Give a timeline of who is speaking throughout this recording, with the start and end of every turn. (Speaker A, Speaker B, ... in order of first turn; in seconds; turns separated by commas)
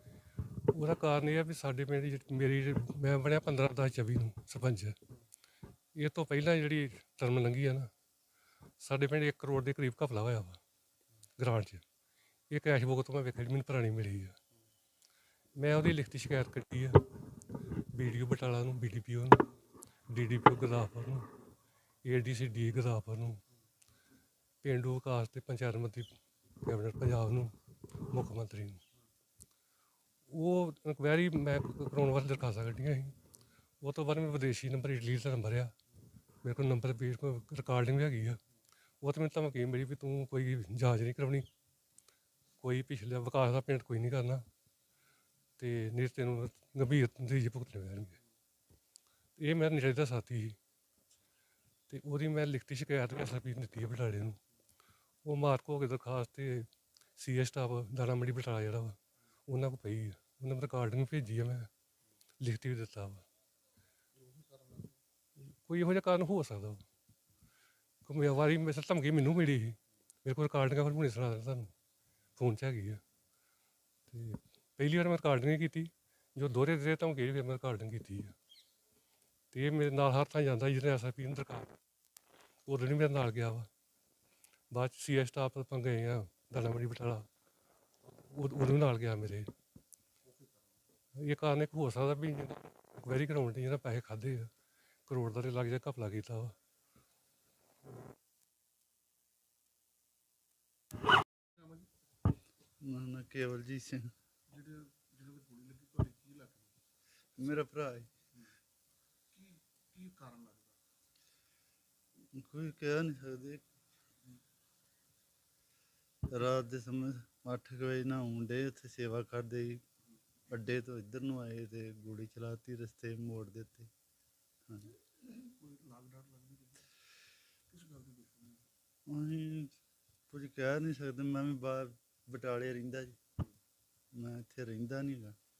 Speaker A: 0.7-5.0, Speaker A: 5.9-7.9, Speaker A: 8.8-10.6, Speaker A: 11.4-11.8, Speaker A: 12.5-14.4, Speaker A: 15.6-17.1, Speaker A: 17.9-19.5, Speaker A: 20.1-21.3, Speaker A: 22.0-23.4, Speaker A: 24.6-26.1, Speaker A: 26.6-28.8, Speaker A: 30.3-33.1, Speaker A: 33.8-35.7, Speaker A: 36.4-38.4, Speaker A: 39.0-41.5, Speaker A: 42.6-44.4, Speaker A: 45.6-48.2, Speaker A: 49.4-50.6, Speaker A: 51.9-54.4, Speaker A: 55.2-61.7, Speaker A: 62.4-63.2, Speaker B: 64.1-65.0, Speaker A: 65.4-66.8, Speaker A: 68.0-71.7, Speaker A: 72.4-73.0, Speaker A: 74.1-78.3, Speaker A: 79.5-81.7, Speaker A: 82.7-83.7, Speaker A: 84.7-87.3, Speaker A: 88.2-89.5, Speaker B: 90.2-90.8, Speaker A: 91.2-94.5, Speaker A: 95.1-96.5, Speaker B: 101.5-101.9, Speaker C: 102.8-104.1, Speaker B: 104.5-106.8, Speaker C: 107.4-108.1, Speaker B: 109.3-110.8, Speaker C: 112.3-113.6, Speaker C: 116.3-119.8, Speaker C: 120.5-123.9, Speaker C: 124.7-124.9, Speaker B: 125.3-126.9, Speaker B: 127.7-128.7, Speaker C: 129.1-129.7, Speaker C: 130.3-133.2, Speaker C: 134.1-135.3